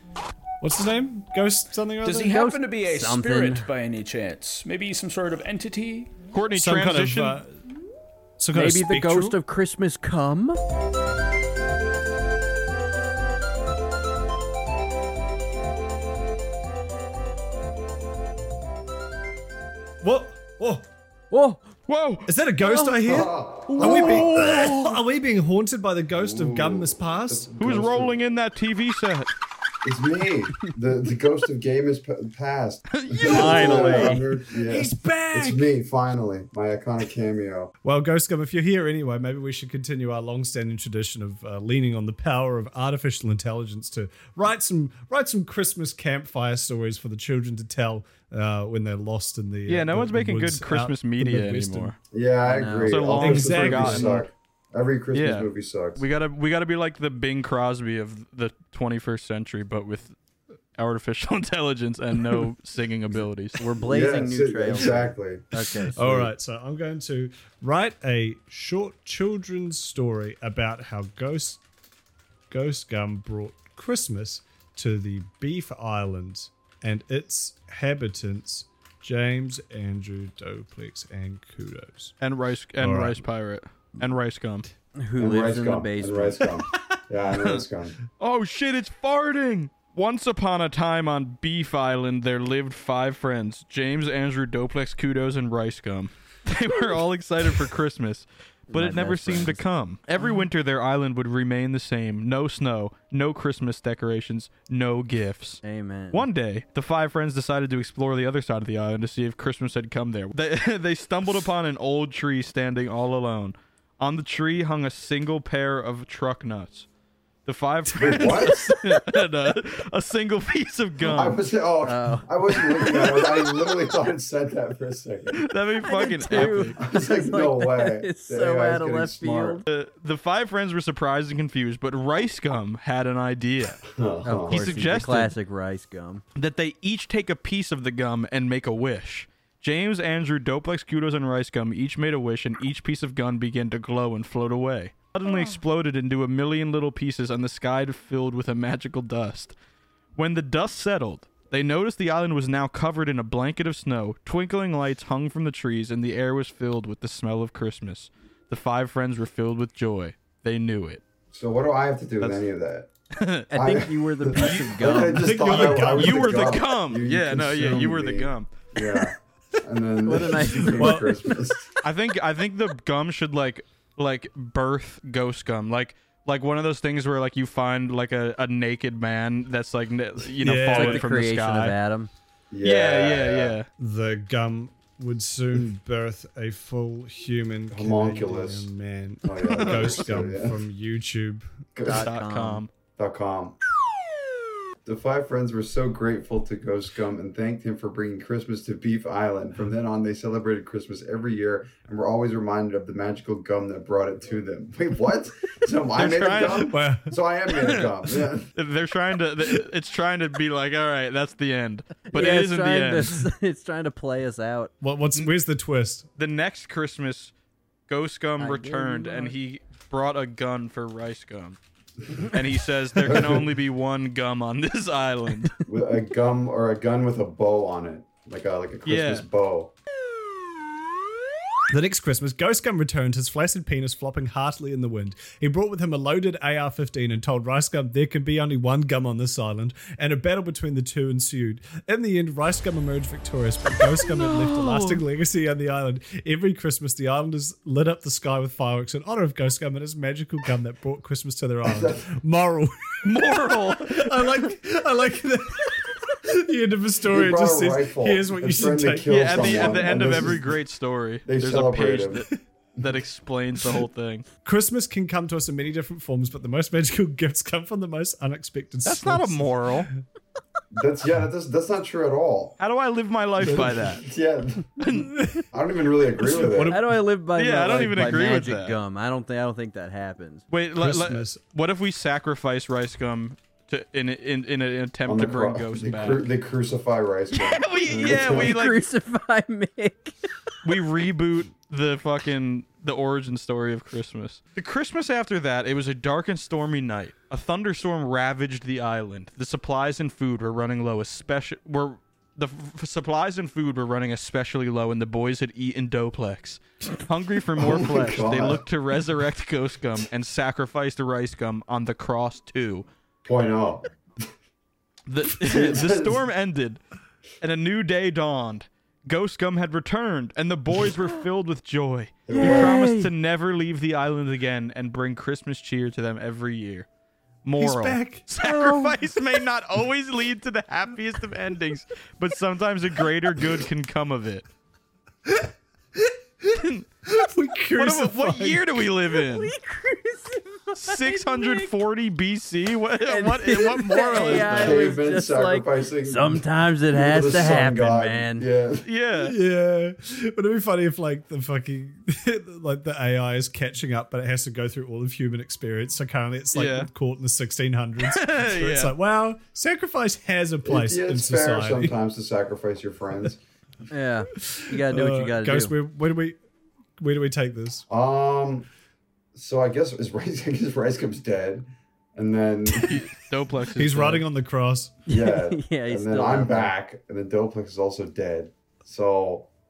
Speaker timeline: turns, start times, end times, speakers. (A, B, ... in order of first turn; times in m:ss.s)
0:00.6-0:02.4 A
0:02.0-0:06.1 B
0:02.2-0:03.7 C
0:06.3-0:07.4 D
0:06.5-0:07.6 A
0:08.4-0:09.4 A
0:08.5-0:10.6 C
0:20.0-0:20.8 A
0:21.3-0:21.6 C
0:21.9-0:22.3 D
0:22.3-0:27.5 A
0:22.6-0:23.1 C
0:23.0-0:24.4 E
0:23.7-0:24.8 C
0:26.2-0:28.2 E
0:27.6-0:29.3 D
0:29.8-0:37.7 E
0:32.9-0:33.9 D
0:33.2-0:35.7 A
0:33.3-0:34.3 C
0:37.8-0:51.9 A
0:49.7-0:52.0 D
0:52.1-0:56.0 E
0:52.4-0:53.2 C
0:52.9-0:54.2 D
0:53.2-0:54.2 A
0:55.1-1:00.2 D
1:00.8-1:03.6 D
1:03.6-1:06.3 C
1:03.8-1:05.5 E
1:06.0-1:11.6 A
1:12.5-1:22.2 A
1:22.2-1:24.7 D
1:22.8-1:23.2 A
1:25.0-1:26.6 C
1:25.2-1:28.0 E
1:28.2-1:56.9 D
1:38.7-1:39.6 C
1:45.6-1:46.3 C
1:57.5-2:01.4 D
1:57.9-1:58.7 E
1:58.2-1:59.0 C
2:01.1-2:05.4 E
2:01.8-2:03.5 C
2:05.3-2:06.8 D
2:05.8-2:09.6 C
2:06.5-2:09.6 E
2:09.7-2:13.8 D
2:13.9-2:14.9 E
2:14.2-2:16.2 C
2:14.5-2:15.3 D
2:16.4-2:29.6 D
2:30.2-2:41.0 D
2:41.3-2:42.9 E
2:43.2-2:43.5 D
2:43.5-2:45.6 C
2:43.5-2:51.7 E
2:44.3-2:48.5 D
2:45.1-2:46.6 A
2:50.0-2:51.5 C
2:50.5-2:51.1 A
2:51.8-3:01.8 D
3:00.4-3:01.1 A
3:00.7-3:02.1 C
3:02.5-3:03.6 E
3:02.6-3:03.7 D
3:03.8-3:11.5 A
3:07.7-3:08.7 E
3:09.2-3:10.6 E
3:09.4-3:10.2 D
3:11.8-3:12.1 E
3:11.8-3:12.6 C
3:11.8-3:12.7 D
3:13.0-3:13.6 E
3:14.8-3:28.5 E
3:26.0-3:26.8 D
3:26.4-3:27.2 A
3:27.5-3:33.2 D
3:32.1-3:34.7 C
3:34.8-3:36.1 A
3:36.2-3:37.3 D
3:37.9-3:41.6 D
3:38.4-3:39.4 C
3:42.2-3:45.6 D
3:43.1-3:43.5 E
3:45.7-3:45.9 C
3:45.7-3:49.7 E
3:48.9-3:49.3 D
3:51.7-4:20.4 A
4:04.0-4:05.0 D
4:11.6-4:12.1 E
4:13.0-4:14.5 D
4:17.1-4:20.6 E
4:19.1-4:22.3 D
4:21.3-4:22.2 E
4:22.8-4:24.2 D
4:24.4-4:29.8 A
4:28.8-4:29.9 D
4:30.7-4:32.6 E
4:32.6-4:34.0 D
4:33.4-4:34.0 A
4:34.0-4:34.8 E
4:34.8-4:35.1 D
4:34.9-4:35.5 A
4:35.5-4:36.8 E
4:36.2-4:37.0 A
4:36.7-4:40.4 C
4:37.4-4:38.8 D
4:37.8-4:38.2 A
4:40.5-4:46.3 D
4:40.8-4:41.4 A
4:45.1-4:48.6 E
4:47.3-4:48.8 D
4:47.9-4:50.1 C
4:50.6-5:12.9 D
5:07.6-5:08.6 E
5:13.2-5:13.9 E
5:15.1-5:16.8 D
5:15.4-5:16.2 E
5:17.4-5:26.9 D
5:22.3-5:22.9 E
5:22.3-5:23.1 C
5:27.4-5:34.5 D
5:27.6-5:28.9 A
5:28.4-5:28.9 C
5:35.3-5:38.9 A
5:36.5-5:36.8 D
5:37.8-5:39.5 D
5:39.2-5:41.7 C
5:40.8-5:45.0 D
5:43.0-5:48.5 C
5:44.2-5:48.8 E
5:48.8-5:49.4 D
5:49.2-6:02.0 A
5:56.5-5:56.9 D
5:58.0-5:58.9 D
6:00.6-6:03.4 E
6:03.9-6:05.7 C
6:04.5-6:06.4 A
6:07.0-6:07.9 A
6:07.9-6:08.7 E
6:09.3-6:13.1 E
6:12.8-6:14.2 D
6:13.7-6:15.0 A
6:15.1-6:19.5 E
6:15.1-6:16.7 C